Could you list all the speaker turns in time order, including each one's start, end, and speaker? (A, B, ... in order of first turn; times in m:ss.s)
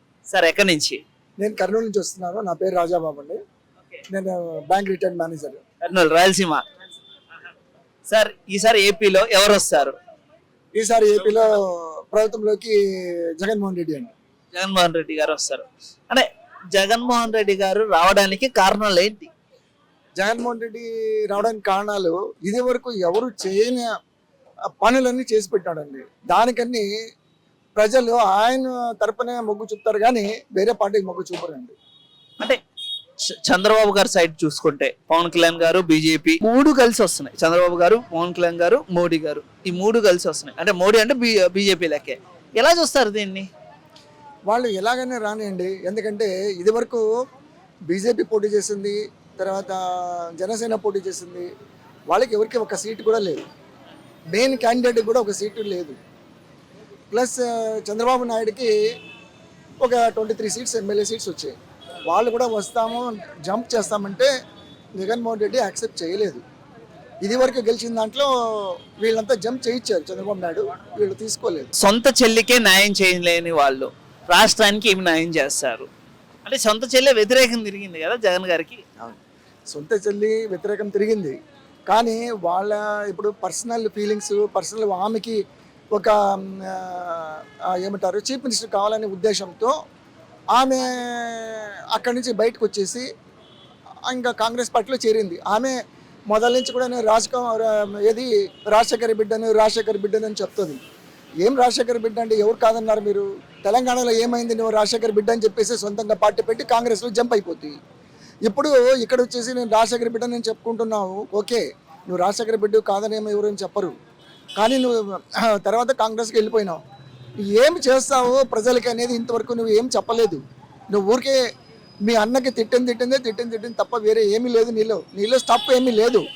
0:00.3-0:01.0 A
0:01.4-0:03.4 B
0:04.1-0:05.6 B
0:05.8-0:06.6 A
0:08.1-0:09.9 A
0:10.7-0:14.1 B
0:14.5-0:19.3 A
0:20.2-0:23.8 B
0:24.8-0:26.9 B
0:27.8-0:31.7 B
0:33.3-0:43.5 A
0:44.5-0:47.0 B
0:47.9-0:51.5 B
0:52.1-0:53.4 B
0:54.3-0:56.0 B
0:57.1-0:58.7 B
0:59.8-1:01.5 B
1:02.1-1:04.3 B
1:05.0-1:06.4 B
1:07.2-1:11.7 B
1:11.8-1:15.9 A
1:16.4-1:18.8 A
1:19.7-1:21.3 B
1:21.9-1:25.4 B
1:25.9-1:29.7 B
1:30.6-1:33.0 B
1:34.1-1:35.7 B
1:36.3-1:40.8 B
1:41.4-1:47.7 B
1:48.4-1:53.9 B
1:54.6-1:56.8 B
1:57.5-2:00.4 B
2:00.9-2:01.4 B
2:02.0-2:06.2 B